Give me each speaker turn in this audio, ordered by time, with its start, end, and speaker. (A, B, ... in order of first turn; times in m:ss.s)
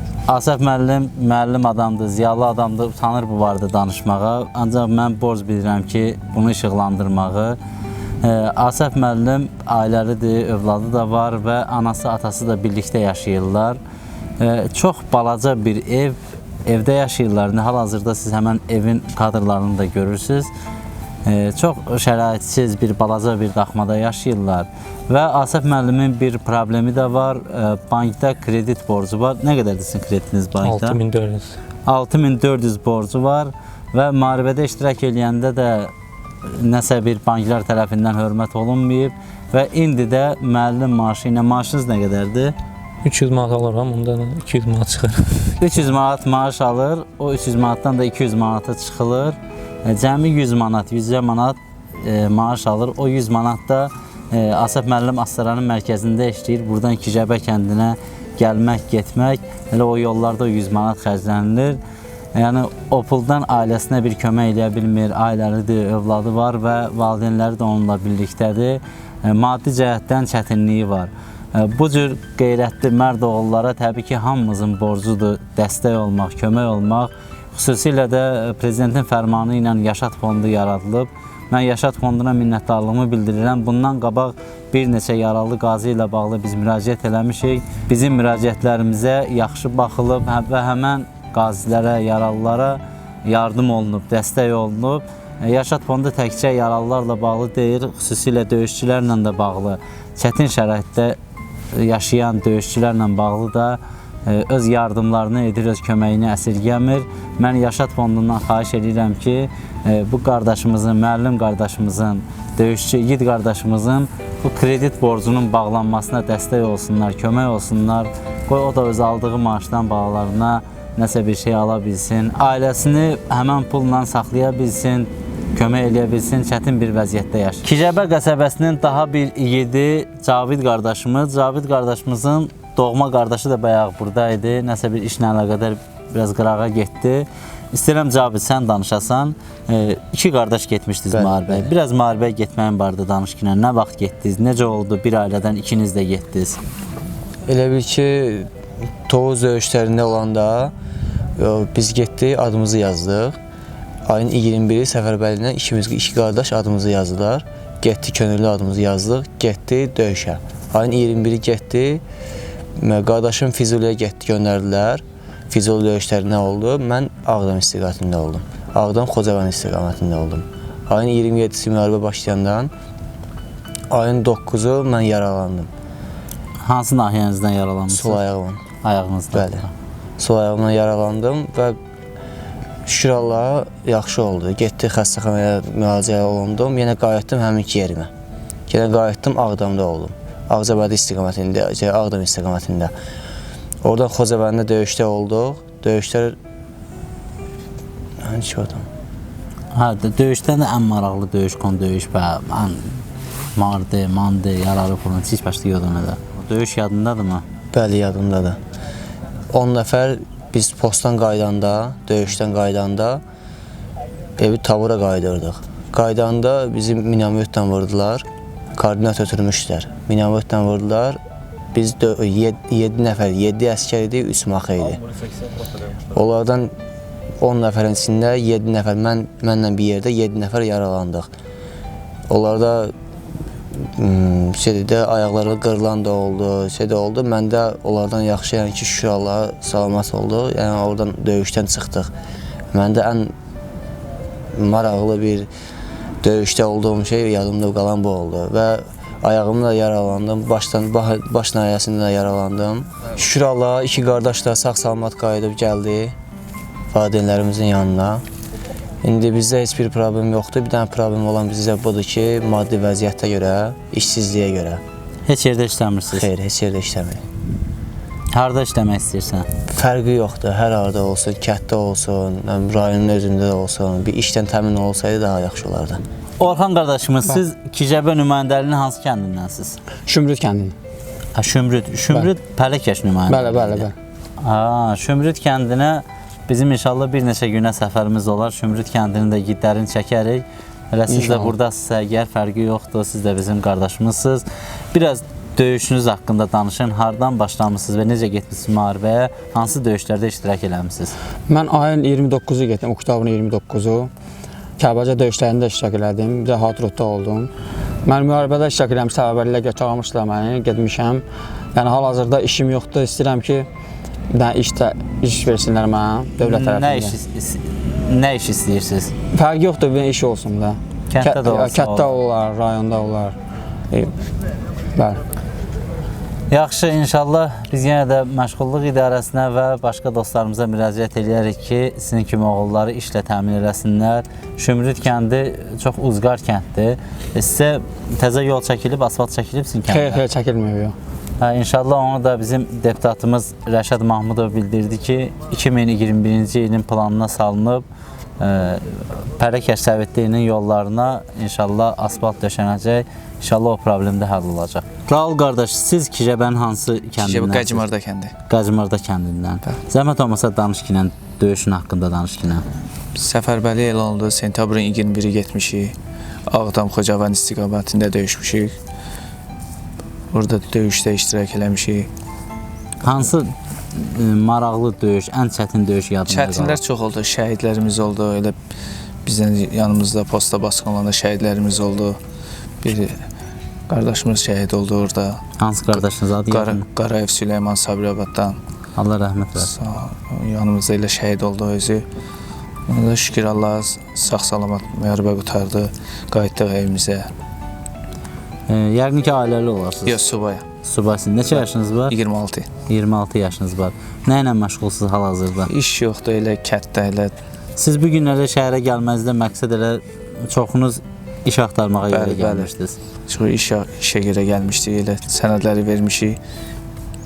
0:00.3-0:07.6 A
0:08.2-0:13.8 A
0:14.4-0:20.5 A
0:21.2-0:31.0 A
0:30.6-0:31.6 B
0:31.8-0:35.9 A
0:36.5-0:42.5 A
0:43.0-0:45.6 B
0:45.6-1:01.8 A
1:02.3-1:41.2 A
1:41.7-2:26.6 A
2:21.1-2:21.7 C
2:27.5-2:28.5 C
2:29.0-2:30.7 C
2:31.4-2:33.4 C
2:34.0-2:42.0 C
2:42.8-2:52.7 C
2:53.9-2:55.7 C
2:56.6-2:58.2 A
2:57.9-2:58.6 C
2:58.8-2:59.7 A
2:59.3-2:59.7 C
3:00.2-3:01.8 C
3:02.8-3:08.1 C
3:08.7-3:12.9 C
3:13.8-3:16.4 C
3:18.2-3:18.9 C
3:19.7-3:23.0 A
3:23.6-3:27.4 A
3:27.7-3:28.6 C
3:29.5-3:33.2 C
3:34.4-3:41.2 C
3:41.7-3:45.0 C
3:46.1-3:46.7 C
3:47.4-3:51.3 C
3:52.3-3:52.9 C
3:53.8-4:02.1 C
4:02.7-4:03.3 C
4:04.5-4:05.5 C
4:06.2-4:16.1 C
4:16.9-4:18.2 C
4:19.0-4:24.8 C
4:25.3-4:26.3 A
4:26.1-4:27.2 C
4:28.3-4:29.5 A
4:29.7-4:36.0 C
4:36.4-4:39.8 A
4:40.1-4:40.7 D
4:41.4-4:43.9 A
4:43.3-4:43.9 D
4:44.4-5:01.2 A
4:51.1-4:51.5 D
5:01.5-5:04.1 D
5:04.8-5:07.5 D
5:08.0-5:13.7 D
5:14.3-5:17.1 D
5:16.4-5:19.1 A
5:19.3-5:23.4 D
5:21.1-5:22.2 A
5:25.0-5:25.2 D
5:26.5-5:40.2 A
5:39.9-5:40.9 D
5:41.4-5:47.8 A
5:48.4-5:57.9 A
5:57.2-5:58.3 E
5:58.5-6:02.6 A
6:03.1-6:06.0 E
6:06.5-6:08.7 E
6:10.3-6:12.1 E
6:13.0-6:16.8 A
6:16.3-6:18.6 E
6:19.2-6:22.2 E
6:22.8-6:23.2 E
6:23.9-6:25.4 E
6:25.6-6:26.9 A
6:26.5-6:28.6 E
6:29.0-6:29.7 A
6:29.6-6:32.0 E
6:32.9-6:37.3 E
6:38.7-6:40.2 A
6:40.0-6:40.6 E
6:40.8-6:42.1 A
6:41.5-6:42.7 E
6:42.9-6:45.7 A
6:45.7-6:47.3 E
6:47.8-6:53.0 A
6:52.1-6:52.7 E
6:53.3-6:56.4 E